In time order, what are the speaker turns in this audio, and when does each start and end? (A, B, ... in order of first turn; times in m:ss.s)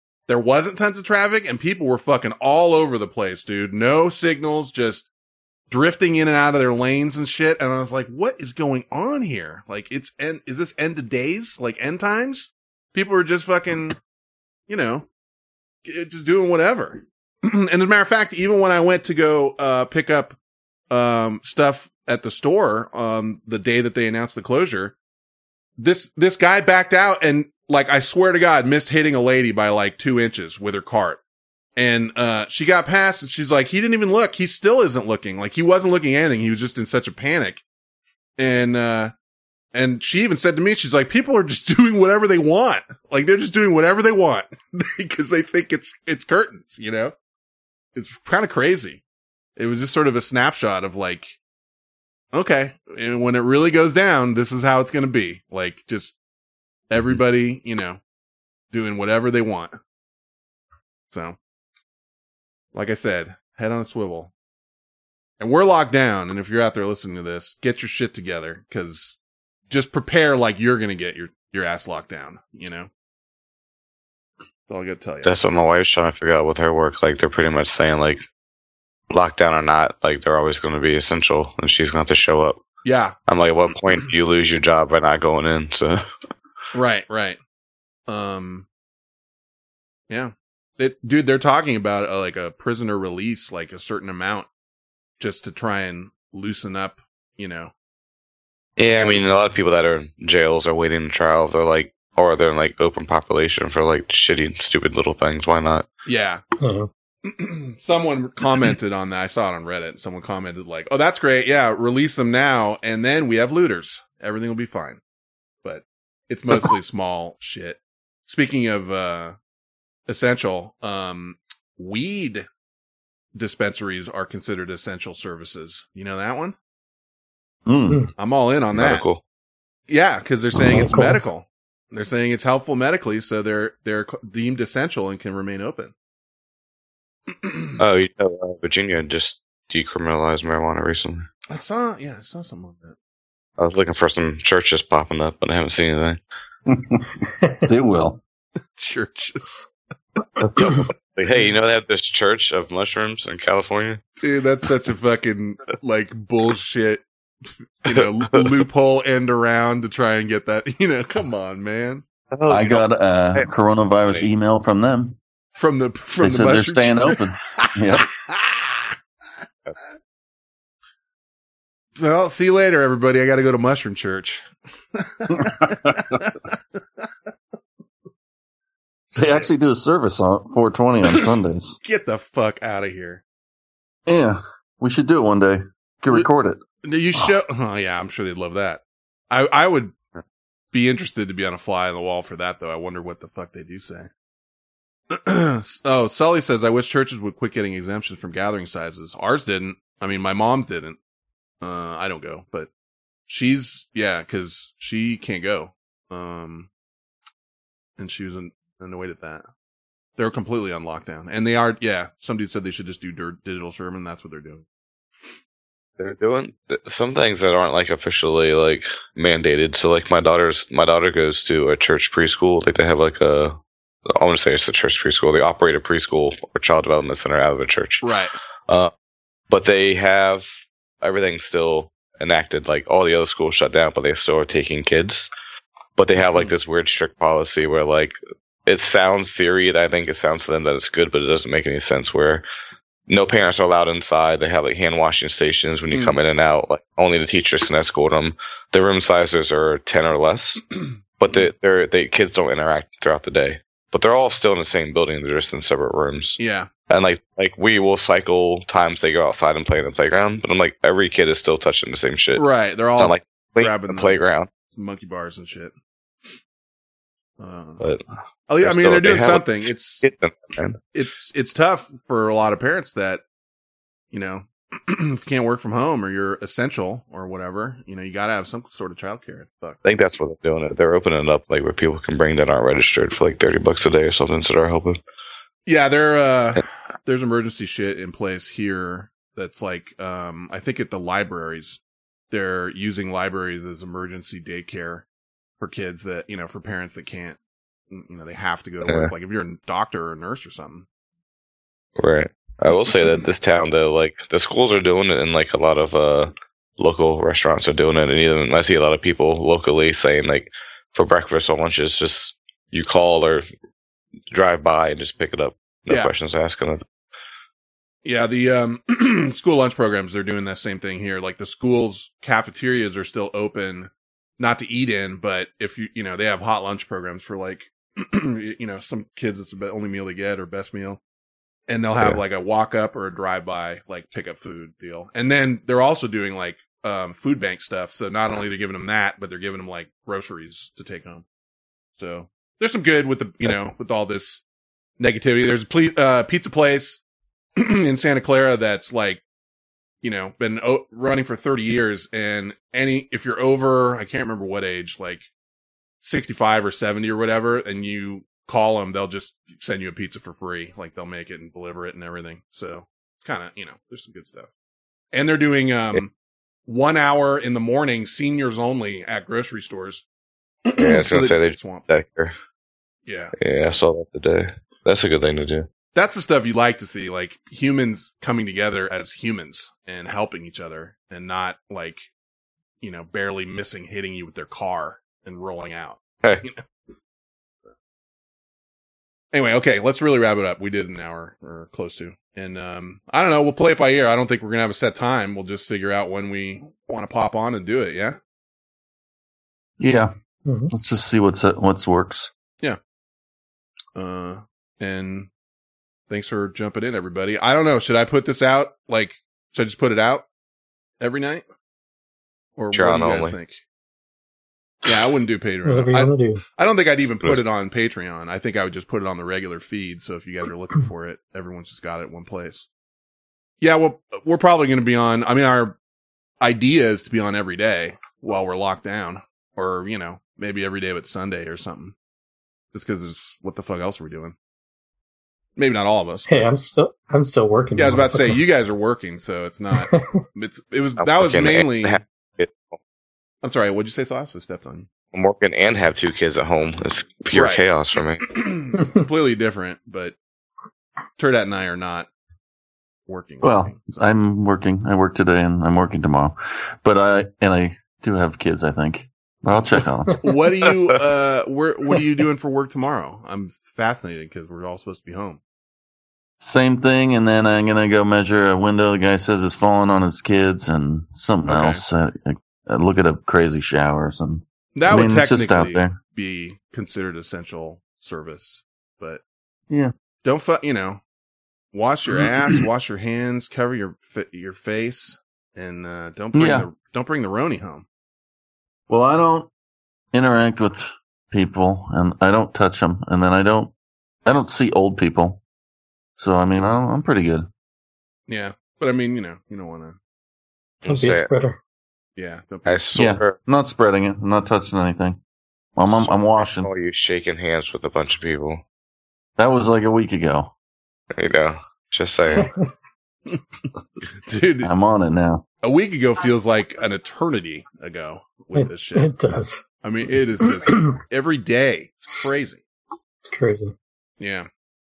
0:00.3-0:05.1 A
0:05.7-0:14.0 A
0:14.7-0:15.0 A
0:15.8-0:20.4 A
0:20.9-0:24.9 A
0:25.8-0:31.2 A
0:31.8-0:37.6 A
0:38.4-0:39.1 A
0:39.7-0:47.1 A
0:47.9-0:49.0 A
0:49.6-0:51.4 A
0:52.3-0:56.1 A
0:56.9-0:58.0 A
0:58.7-0:59.8 A
1:01.1-1:01.4 A
1:02.7-1:04.3 A
1:05.4-1:12.9 A
1:14.7-1:15.3 A
1:15.2-1:18.2 B
1:19.1-1:22.6 B
1:22.8-1:23.1 A
1:23.3-1:26.0 B
1:26.7-1:27.4 A
1:28.1-1:28.6 A
1:30.1-1:34.5 A
1:35.2-1:37.7 A
1:38.8-1:45.8 B
1:46.0-1:46.4 A
1:46.6-1:46.9 C
1:47.2-1:55.0 A
1:55.6-1:59.4 A
2:00.1-2:02.5 A
2:03.3-2:06.6 A
2:07.6-2:08.0 D
2:08.2-2:09.0 A
2:08.7-2:09.2 B
2:09.9-2:15.9 A
2:10.7-2:11.2 C
2:17.3-2:17.8 A
2:17.8-2:21.3 B
2:21.5-2:23.0 A
2:23.6-2:26.2 B
2:26.7-2:28.2 D
2:28.8-2:29.7 A
2:30.4-2:34.0 B
2:34.2-2:37.0 A
2:37.8-2:42.0 A
2:37.9-2:38.5 B
2:42.3-2:43.5 B
2:42.5-2:45.2 D
2:45.6-2:48.9 A
2:46.2-2:48.1 D
2:52.0-2:56.6 A
2:55.3-2:56.2 D
2:59.1-3:01.8 D
3:01.8-3:03.2 A
3:04.0-3:06.6 D
3:06.8-3:09.9 A
3:10.7-3:14.1 A
3:15.1-3:21.0 A
3:21.6-3:22.7 A
3:23.3-3:26.7 A
3:28.0-3:29.5 A
3:30.2-3:34.6 A
3:36.0-3:43.6 B
3:44.1-3:48.0 B
3:48.0-3:48.3 A
3:49.5-3:50.4 B
3:51.0-3:55.3 B
3:56.0-4:02.4 B
3:56.3-3:56.5 A
4:03.1-4:22.4 B
4:05.9-4:06.2 A
4:16.4-4:16.7 A
4:22.4-4:25.7 A
4:23.0-4:24.5 B
4:27.4-4:27.9 A
4:28.5-4:30.0 A
4:28.6-4:30.8 B
4:30.9-4:33.2 A
4:34.1-4:39.8 A
4:39.8-4:45.0 B
4:45.6-4:51.8 A
4:52.3-4:55.0 A
4:55.6-4:57.4 A
4:57.9-5:00.8 A
4:58.8-4:59.1 B
5:02.0-5:13.4 B
5:14.3-5:16.8 B
5:18.0-5:31.0 A
5:31.7-5:41.2 A
5:42.0-5:44.4 A
5:45.0-5:47.0 A
5:47.6-5:49.2 A
5:50.0-5:55.3 A
5:56.0-6:04.5 A
6:05.1-6:06.1 A
6:06.7-6:10.0 A
6:10.6-6:11.9 A
6:10.8-6:12.3 B
6:13.0-6:13.7 A
6:13.4-6:15.7 B
6:15.9-6:22.0 A
6:22.8-6:26.6 A
6:26.2-6:26.5 B
6:29.3-6:38.2 A
6:39.8-6:40.1 D
6:40.4-6:40.7 C
6:40.7-6:42.3 D
6:44.0-6:45.3 A
6:46.1-6:50.2 A
6:51.0-6:51.4 A
6:52.6-6:53.6 A
6:52.7-6:53.4 B
6:54.8-7:02.7 A
6:55.6-6:56.4 C
7:03.6-7:05.8 A
7:06.4-7:11.9 A
7:12.7-7:14.3 A
7:15.6-7:16.5 A
7:16.3-7:18.4 C
7:17.8-7:22.0 A
7:21.0-7:22.8 B
7:23.4-7:24.9 A
7:25.1-7:28.4 B
7:27.3-7:27.6 A
7:28.2-7:30.2 A
7:31.2-7:32.1 A
7:33.1-7:33.8 A
7:33.4-7:40.2 D
7:40.2-7:45.4 A
7:46.4-7:56.0 D
7:51.4-7:51.8 A
7:54.7-7:59.2 A
8:00.2-8:01.0 A
8:01.7-8:07.8 A
8:06.3-8:06.7 D
8:08.9-8:09.5 D
8:10.1-8:13.7 D
8:14.2-8:15.4 D
8:16.2-8:17.5 D
8:18.3-8:20.0 A
8:20.8-8:21.3 B
8:20.8-8:21.6 C
8:22.2-8:22.9 A
8:22.6-8:23.4 B
8:22.9-8:25.2 D
8:25.8-8:26.7 D
8:26.0-8:28.6 B
8:29.4-8:30.5 D
8:31.2-8:32.5 B
8:32.3-8:32.7 C
8:34.1-8:34.7 A
8:34.6-8:35.4 D
8:35.6-8:39.1 A
8:38.5-8:39.6 C
8:39.8-8:42.6 A
8:40.4-8:40.9 C
8:43.3-8:43.7 C
8:44.2-8:44.5 A